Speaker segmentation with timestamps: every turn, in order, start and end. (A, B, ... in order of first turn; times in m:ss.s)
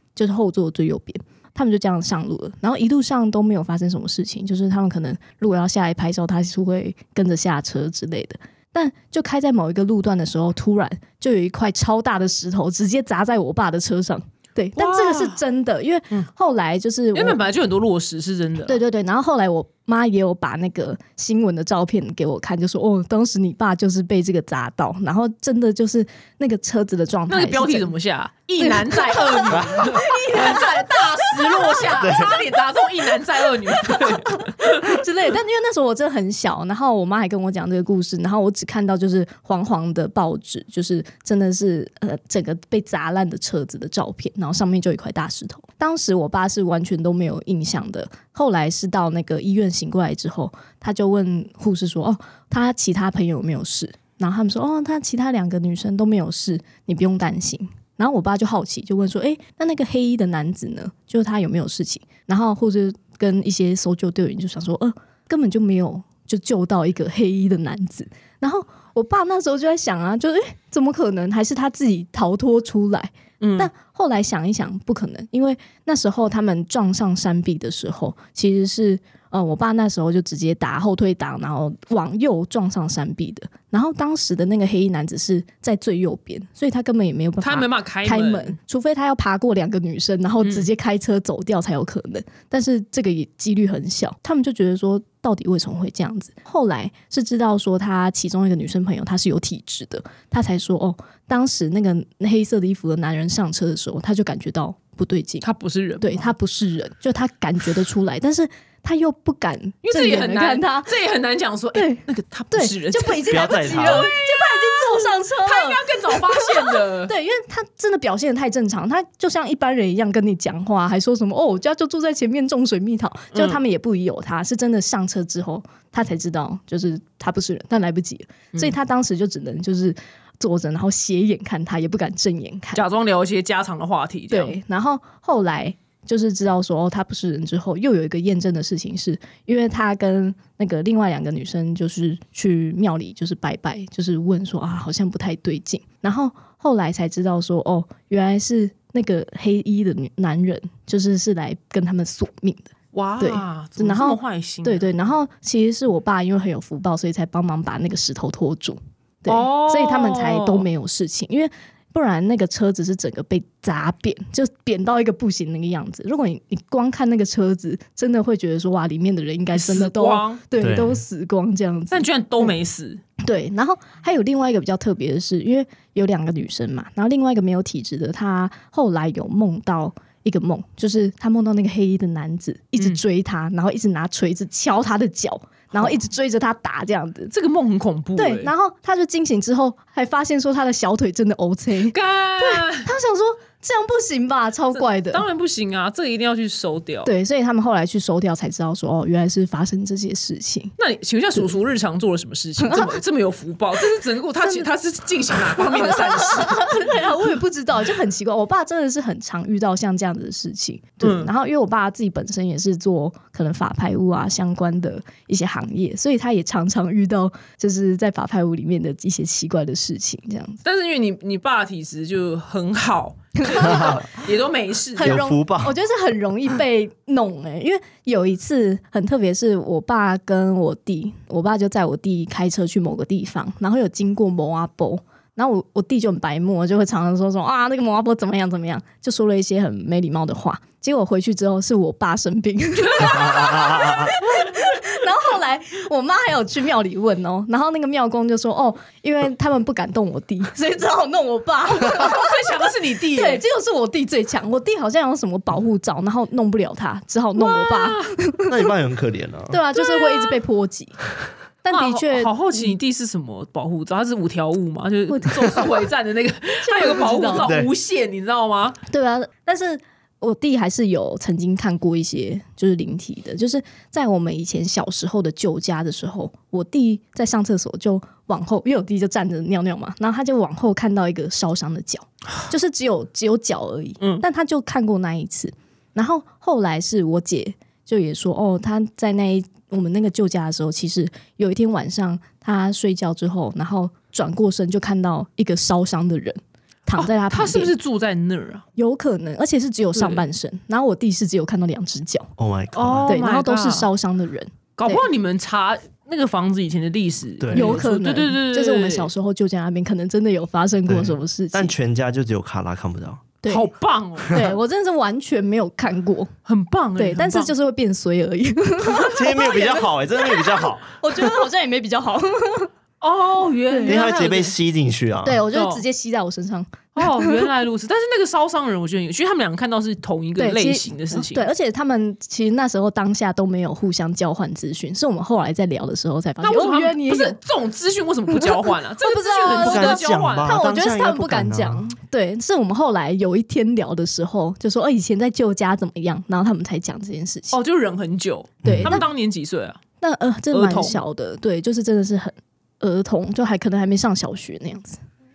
0:00.2-0:17.4 A
0:14.8-0:15.4 B
0:17.1-0:18.8 B
0:18.6-0:27.9 A
0:27.3-0:34.8 B
0:28.6-0:32.2 A
0:29.5-0:30.0 C
0:31.9-0:32.4 C
0:33.7-1:45.5 A
1:13.4-1:13.7 B
1:27.4-1:28.6 B
1:30.4-1:30.7 B
1:45.4-1:46.3 B
1:46.0-1:50.9 A
1:49.8-1:57.1 B
1:51.7-2:12.8 A
1:53.3-1:54.1 C
2:03.3-2:03.6 B
2:12.7-2:14.6 B
2:14.3-2:52.5 A
2:32.9-2:34.9 B
2:39.2-2:40.7 B
2:49.5-2:50.4 B
2:50.6-2:51.0 C
2:51.9-2:53.0 B
2:53.2-3:07.3 A
3:07.3-3:08.5 B
3:08.2-3:15.2 A
3:11.9-3:12.8 B
3:15.0-3:17.1 B
3:17.0-3:20.7 A
3:20.8-3:26.9 B
3:22.6-3:22.9 A
3:24.4-3:24.7 A
3:25.5-3:40.6 A
3:31.0-3:31.3 B
3:40.6-3:45.2 B
3:43.5-3:43.9 A
3:43.6-3:44.1 C
3:45.0-4:18.6 A
3:45.0-3:45.7 C
4:02.8-4:04.6 B
4:03.0-4:04.1 C
4:11.8-4:13.4 B
4:17.4-4:18.1 B
4:18.5-4:19.6 C
4:19.5-4:21.0 A
4:19.8-4:20.3 B
4:21.6-4:22.7 A
4:21.7-4:28.8 B
4:25.1-4:25.7 A
4:26.6-4:27.5 A
4:27.4-4:27.7 C
4:28.9-4:57.7 A
4:57.0-4:58.6 B
4:58.8-5:02.3 A
4:59.9-5:00.2 B
5:02.4-5:03.2 C
5:02.7-5:03.9 B
5:03.1-5:05.0 A
5:04.8-5:09.1 B
5:07.4-5:07.8 C
5:07.5-5:11.7 A
5:10.9-5:13.3 C
5:13.4-5:13.7 A
5:13.5-5:14.5 B
5:14.3-5:16.3 A
5:16.4-5:17.5 B
5:17.0-5:22.7 A
5:19.0-5:21.3 C
5:23.0-5:24.5 B
5:23.7-5:24.1 A
5:23.9-5:25.4 C
5:25.2-5:27.5 A
5:25.5-5:25.8 B
5:27.0-5:31.5 B
5:30.4-5:37.4 A
5:36.4-5:40.6 B
5:38.4-5:47.6 A
5:39.5-5:41.9 C
5:47.5-5:49.8 B
5:48.6-5:49.0 C
5:50.0-5:55.0 A
5:50.5-5:51.0 B